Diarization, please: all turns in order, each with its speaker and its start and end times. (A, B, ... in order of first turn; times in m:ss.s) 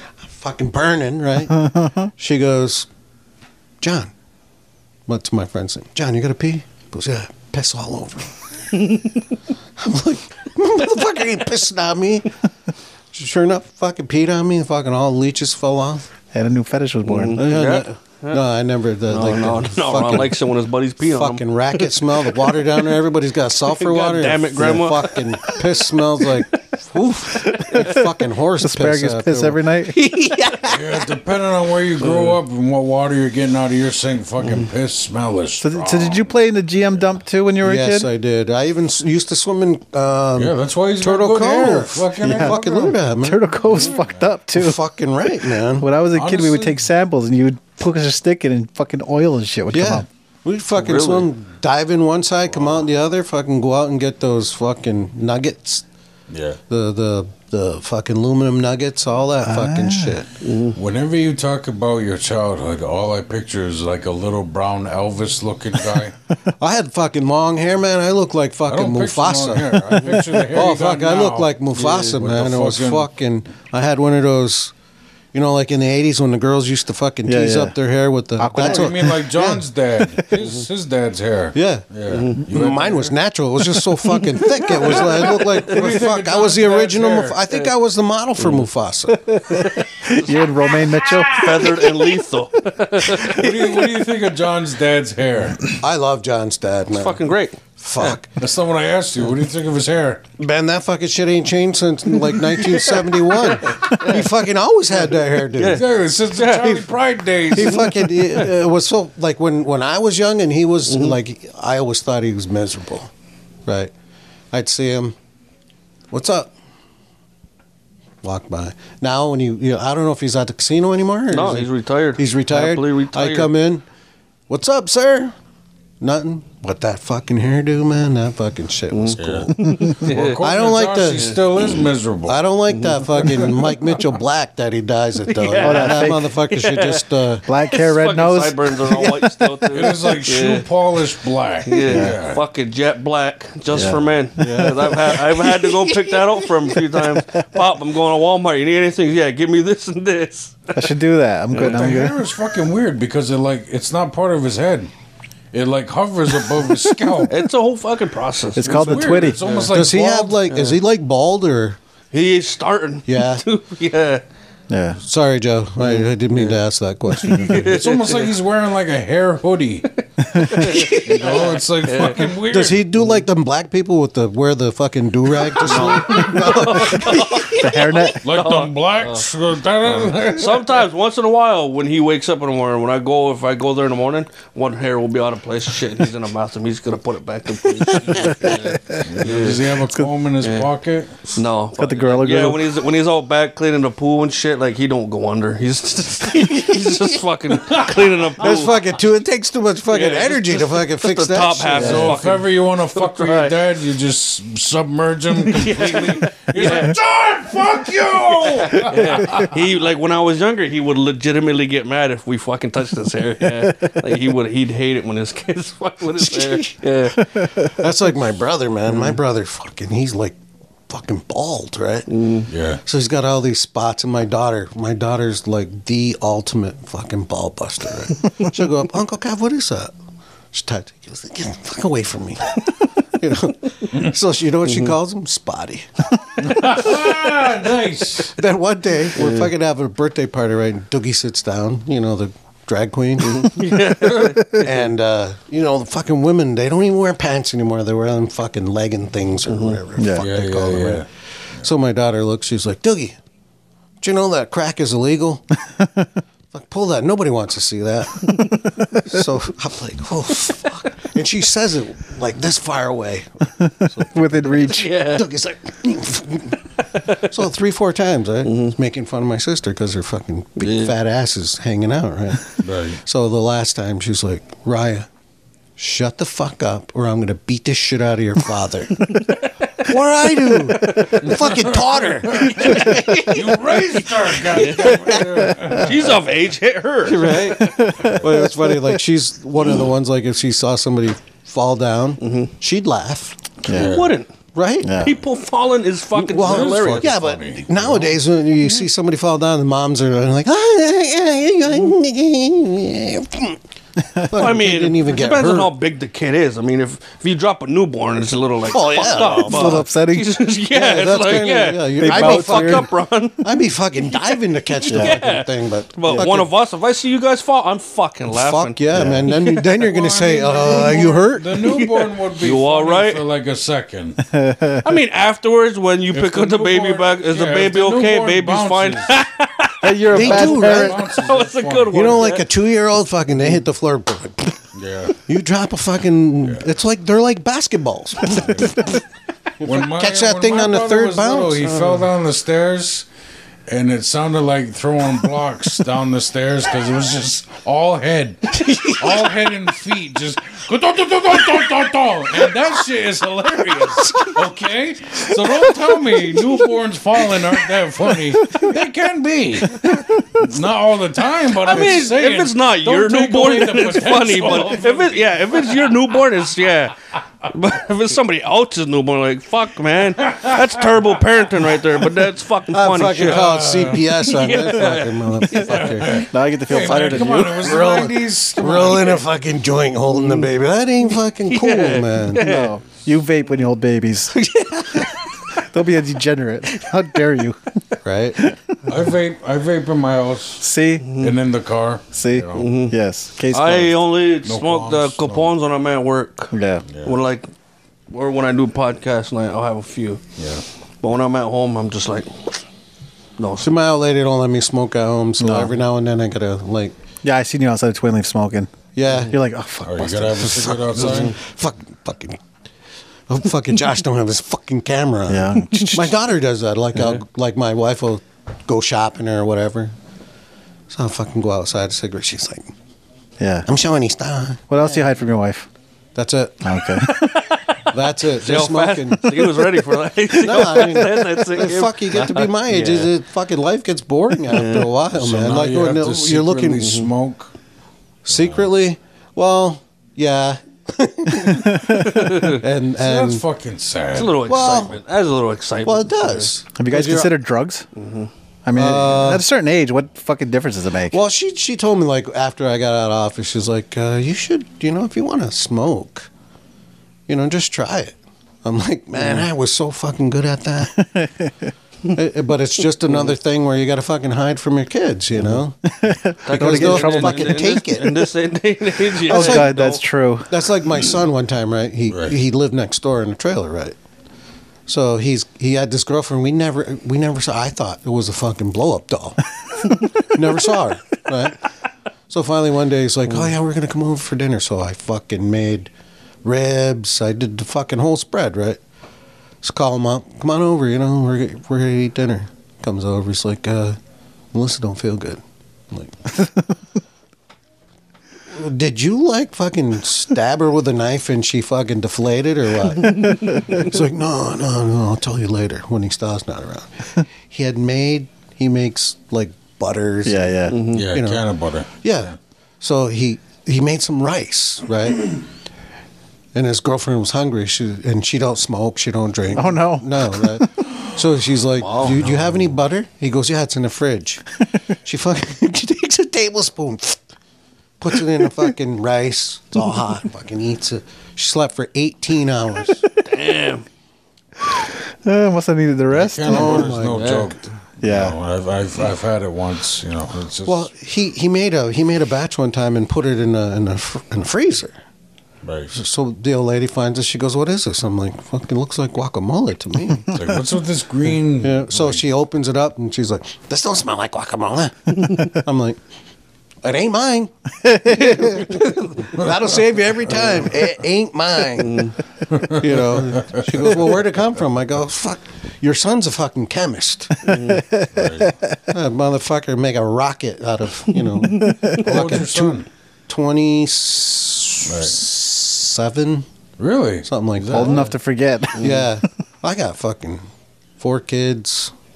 0:00.2-0:02.9 A
0:01.6-0:01.9 B
0:03.8-0:04.1 A
0:05.1-0:08.3 A
0:08.8-0:09.1 C
0:09.8-0:12.3 A
0:13.1-0:16.1 A
0:16.3-0:17.4 B
0:17.0-0:18.4 C
0:17.4-0:20.4 A
0:19.1-0:22.9 C
0:21.0-0:29.6 A
0:23.7-0:25.6 C
0:27.5-0:28.0 C
0:28.6-0:30.0 B
0:29.9-0:31.1 C
0:30.6-0:36.3 D
0:32.0-0:32.4 C
0:34.4-0:34.7 C
0:35.6-0:38.1 B
0:37.6-0:43.7 A
0:40.4-0:43.0 D
0:42.2-0:44.8 B
0:43.5-0:44.3 D
0:44.5-0:45.9 A
0:45.8-0:50.1 B
0:46.1-0:46.8 D
0:49.7-0:55.8 A
0:50.8-0:51.3 C
0:56.3-0:56.6 D
0:56.7-1:00.3 A
0:59.4-1:00.2 B
1:00.4-1:00.8 C
1:00.8-1:06.2 D
1:06.6-1:14.7 A
1:08.7-1:11.5 D
1:11.8-1:12.2 C
1:12.1-1:13.1 D
1:15.3-1:19.6 A
1:17.3-1:17.8 B
1:18.4-1:19.2 B
1:18.6-1:23.1 D
1:21.5-1:21.9 A
1:22.1-1:22.4 C
1:22.4-1:29.6 A
1:24.7-1:25.6 C
1:24.8-1:27.4 D
1:28.4-1:28.7 C
1:29.4-1:31.8 B
1:29.5-1:29.9 C
1:31.3-1:33.8 C
1:33.1-1:35.7 D
1:35.8-1:37.2 A
1:36.9-1:38.2 C
1:37.8-1:38.3 A
1:38.4-1:40.2 D
1:40.4-1:45.8 A
1:42.6-1:44.3 C
1:45.1-1:46.8 C
1:45.7-1:48.0 D
1:47.5-1:53.1 A
1:47.6-1:48.5 C
1:50.9-1:51.2 C
1:53.7-1:53.9 A
1:54.5-1:55.2 A
1:56.1-1:56.5 A
1:58.2-2:03.9 A
2:01.3-2:03.5 C
2:04.5-2:05.3 A
2:06.0-2:11.4 A
2:08.9-2:10.4 C
2:09.2-2:12.4 D
2:11.1-2:11.7 C
2:12.3-2:17.5 A
2:12.7-2:14.0 C
2:15.2-2:17.1 C
2:15.6-2:16.3 B
2:17.5-2:19.6 B
2:17.7-2:20.7 C
2:19.7-2:22.4 D
2:21.6-2:30.9 C
2:21.8-2:22.2 B
2:23.7-2:25.9 B
2:24.4-2:24.8 A
2:26.8-2:27.4 B
2:30.7-2:32.2 B
2:31.5-2:32.0 C
2:31.6-2:34.9 D
2:35.5-2:37.5 D
2:36.5-2:39.8 C
2:38.6-2:39.4 B
2:38.6-2:40.4 D
2:39.7-2:41.8 A
2:40.5-2:40.8 C
2:42.1-2:44.2 C
2:43.1-2:43.4 A
2:44.7-2:45.0 B
2:45.0-2:47.8 A
2:45.8-2:46.6 C
2:47.2-2:48.3 C
2:47.5-2:52.8 D
2:50.2-2:52.3 C
2:50.3-2:50.8 B
2:52.5-2:57.6 A
2:55.4-2:59.2 C
2:57.5-2:58.2 B
2:58.2-3:00.8 D
3:00.1-3:09.7 C
3:09.0-3:11.2 D
3:10.4-3:10.7 C
3:11.4-3:18.8 C
3:11.8-3:12.7 B
3:17.6-3:18.3 D
3:18.4-3:22.2 A
3:19.9-3:23.5 C
3:21.7-3:29.6 D
3:25.4-3:27.0 C
3:28.4-3:37.5 C
3:33.6-3:34.0 B
3:36.5-3:36.7 A
3:37.2-3:37.7 B
3:37.6-3:40.4 A
3:38.9-3:39.2 C
3:40.9-3:42.1 A
3:42.1-3:42.5 C
3:42.5-3:42.8 D
3:42.8-3:49.9 A
3:50.5-3:55.9 A
3:54.6-3:55.0 C
3:56.4-3:58.4 D
3:58.4-4:03.6 A
3:59.2-3:59.5 C
4:03.2-4:04.8 C
4:04.5-4:11.1 A
4:09.5-4:09.8 C
4:10.0-4:10.3 B
4:10.2-4:11.1 D
4:11.6-4:13.2 A
4:14.0-4:15.4 A
4:15.8-4:16.1 B
4:16.5-4:26.6 A
4:18.2-4:18.8 C
4:23.6-4:24.9 B
4:24.6-4:25.3 C
4:26.9-4:27.2 C
4:27.2-4:35.1 A
4:28.4-4:28.7 C
4:30.6-4:30.9 C
4:32.6-4:33.0 D
4:35.8-4:43.5 A
4:39.1-4:39.9 C
4:40.4-4:41.6 C
4:41.2-4:46.2 D
4:42.4-4:43.6 C
4:44.3-4:48.0 C
4:47.0-4:53.4 A
4:47.6-4:49.0 B
4:52.2-4:52.5 C
4:53.6-4:54.0 B
4:53.7-4:54.2 D
4:53.7-4:54.3 C
4:54.5-4:55.1 A
4:54.8-4:55.2 B
4:54.9-4:57.1 C
4:56.1-5:03.6 A
4:56.3-4:58.2 D
5:04.1-5:05.7 A
5:04.3-5:13.6 C
5:08.7-5:09.8 A
5:09.1-5:10.4 B
5:10.7-5:16.5 A
5:12.0-5:12.9 B
5:14.1-5:19.7 C
5:14.9-5:15.2 B
5:18.3-5:21.6 A
5:18.9-5:19.3 B
5:19.8-5:24.2 D
5:21.6-5:23.2 C
5:24.3-5:24.8 B
5:24.8-5:32.5 C
5:26.1-5:29.2 D
5:29.8-5:31.0 B
5:30.1-5:32.4 D
5:30.1-5:31.0 A
5:31.9-5:34.7 A
5:34.7-5:35.2 D
5:35.3-5:39.0 A
5:38.2-5:38.9 D
5:39.6-5:41.7 A
5:39.6-5:43.1 D
5:41.6-5:42.1 C
5:43.7-6:06.1 D
5:48.5-5:49.3 C
5:53.7-5:54.4 C
5:55.7-5:56.6 C
5:59.8-6:00.3 B
6:01.5-6:13.5 C
6:10.2-6:11.1 D
6:12.7-6:16.2 A
6:13.2-6:14.2 D
6:14.2-6:16.3 C
6:15.7-6:19.2 D
6:16.1-6:17.7 B
6:16.8-6:18.0 C
6:17.5-6:22.4 A
6:20.1-6:20.5 C
6:21.5-6:22.7 C
6:22.4-6:24.4 B
6:24.3-6:25.5 C
6:25.6-6:27.8 B
6:28.0-6:28.4 A
6:28.4-6:28.8 B
6:28.9-6:32.7 D
6:30.6-6:31.1 B
6:31.0-6:31.4 C
6:32.1-6:34.0 B
6:32.5-6:33.0 C
6:33.5-6:37.5 C
6:34.4-6:35.5 D
6:36.5-6:36.8 B
6:36.9-6:37.2 D
6:38.1-6:40.2 C
6:40.4-6:40.6 D
6:41.0-6:42.6 C
6:43.4-6:43.7 C
6:43.6-6:47.0 A
6:45.4-6:45.7 B
6:47.2-6:50.6 B
6:48.9-6:49.4 A
6:49.1-6:49.3 C
6:49.8-6:51.4 D
6:50.4-6:52.4 A
6:51.0-6:51.3 C
6:53.3-7:00.0 A
6:55.3-6:56.1 B
7:00.9-7:02.7 A
7:03.4-7:03.7 B
7:03.7-7:05.0 A
7:04.7-7:05.7 B
7:06.2-7:06.7 A
7:06.6-7:07.4 B
7:07.0-7:13.1 C
7:07.9-7:09.8 A
7:10.3-7:16.9 A
7:14.4-7:14.9 C
7:15.1-7:17.5 D
7:16.8-7:17.1 C
7:18.3-7:23.4 A
7:18.3-7:18.7 D
7:21.3-7:22.4 B
7:21.9-7:22.6 C
7:23.0-7:24.8 D
7:24.1-7:26.5 C
7:24.4-7:25.0 A
7:25.8-7:27.3 A
7:26.8-7:27.9 B
7:28.0-7:28.3 C
7:28.6-7:31.2 B
7:28.7-7:29.4 A
7:31.1-7:36.3 A
7:37.3-7:41.0 A
7:39.2-7:39.5 C
7:40.8-7:41.7 B
7:42.1-7:45.8 A
7:43.1-7:43.3 C
7:45.9-7:47.8 B
7:46.4-7:50.0 C
7:46.5-7:48.3 A
7:49.2-7:50.5 B
7:49.3-7:49.8 A
7:50.5-7:54.0 A
7:52.1-7:52.4 D
7:54.9-7:59.4 A
8:00.2-8:01.6 A
8:02.3-8:05.9 A
8:06.4-8:08.8 A
8:09.6-8:14.0 A
8:14.5-8:16.2 A
8:18.5-8:35.4 A
8:23.0-8:23.9 C
8:30.2-8:30.8 B
8:30.7-8:31.1 C
8:30.9-8:32.3 D
8:36.5-8:44.4 A
8:39.5-8:40.8 B
8:41.8-8:42.2 C
8:45.0-8:47.2 A
8:48.0-8:53.0 A
8:53.2-8:53.9 C
8:54.6-8:57.0 B
8:56.1-9:00.9 D
8:56.5-8:57.5 A
8:57.1-8:57.5 C
8:58.0-8:58.4 B
9:00.7-9:05.0 A
9:05.6-9:05.9 D
9:05.9-9:10.4 A
9:10.3-9:12.2 D
9:11.6-9:16.0 A
9:16.8-9:22.1 A
9:17.8-9:18.4 B
9:18.1-9:19.4 C
9:20.3-9:20.7 C
9:21.8-9:22.2 C
9:22.5-9:23.7 D
9:22.7-9:27.6 A
9:27.4-9:27.9 C
9:27.5-9:28.8 B
9:28.1-9:28.5 D
9:28.9-9:36.5 A
9:31.4-9:31.9 C
9:31.9-9:32.9 D
9:34.8-9:35.2 D
9:36.8-9:38.1 D
9:37.2-9:38.1 A
9:37.7-9:39.1 B
9:38.8-9:40.4 A
9:38.8-9:39.0 C
9:41.0-9:41.9 A